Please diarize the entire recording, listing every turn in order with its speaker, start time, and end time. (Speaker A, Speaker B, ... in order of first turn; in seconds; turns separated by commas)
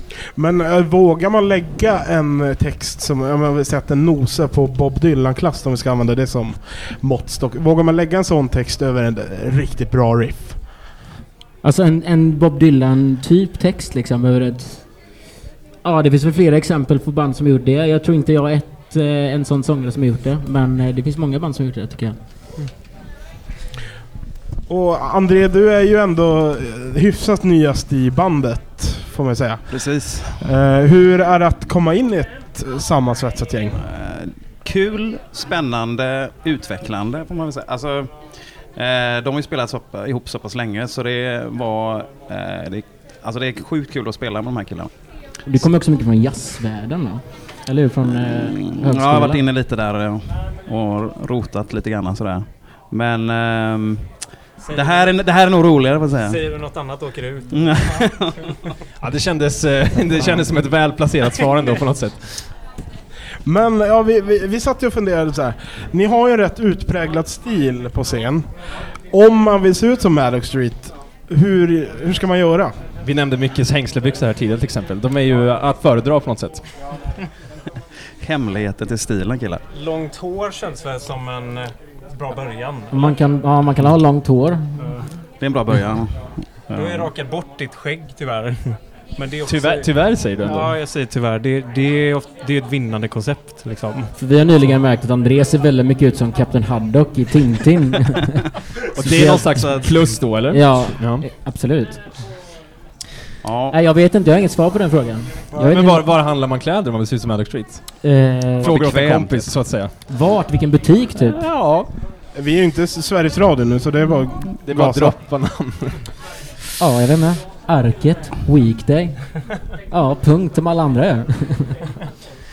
Speaker A: 0.4-10.6, Speaker B: 11.6-14.9, Speaker B: 15.8-22.2, Speaker A: 24.7-29.7, Speaker C: 29.7-30.4, Speaker A: 30.4-33.8, Speaker C: 33.8-38.1, Speaker C: 38.7-44.9, Speaker B: 45.5-49.4, Speaker C: 48.4-56.4, Speaker D: 54.7-55.1, Speaker D: 56.2-58.1, Speaker C: 57.5-58.5, Speaker E: 59.0-62.5, Speaker A: 63.5-68.5, Speaker A: 69.1-72.8, Speaker E: 73.0-76.7, Speaker C: 78.2-79.6, Speaker D: 79.7-83.2, Speaker B: 82.9-85.0, Speaker C: 85.4-87.1, Speaker D: 86.7-94.1, Speaker E: 89.5-90.7, Speaker B: 94.2-102.0, Speaker E: 99.0-101.2, Speaker C: 103.4-103.8, Speaker B: 103.7-106.1, Speaker E: 105.6-108.0, Speaker B: 108.0-108.7, Speaker C: 108.6-109.5, Speaker E: 108.6-109.9, Speaker B: 110.1-111.4, Speaker E: 111.2-111.9, Speaker A: 112.3-115.2, Speaker E: 114.6-116.1, Speaker B: 116.8-119.3, Speaker B: 119.9-121.8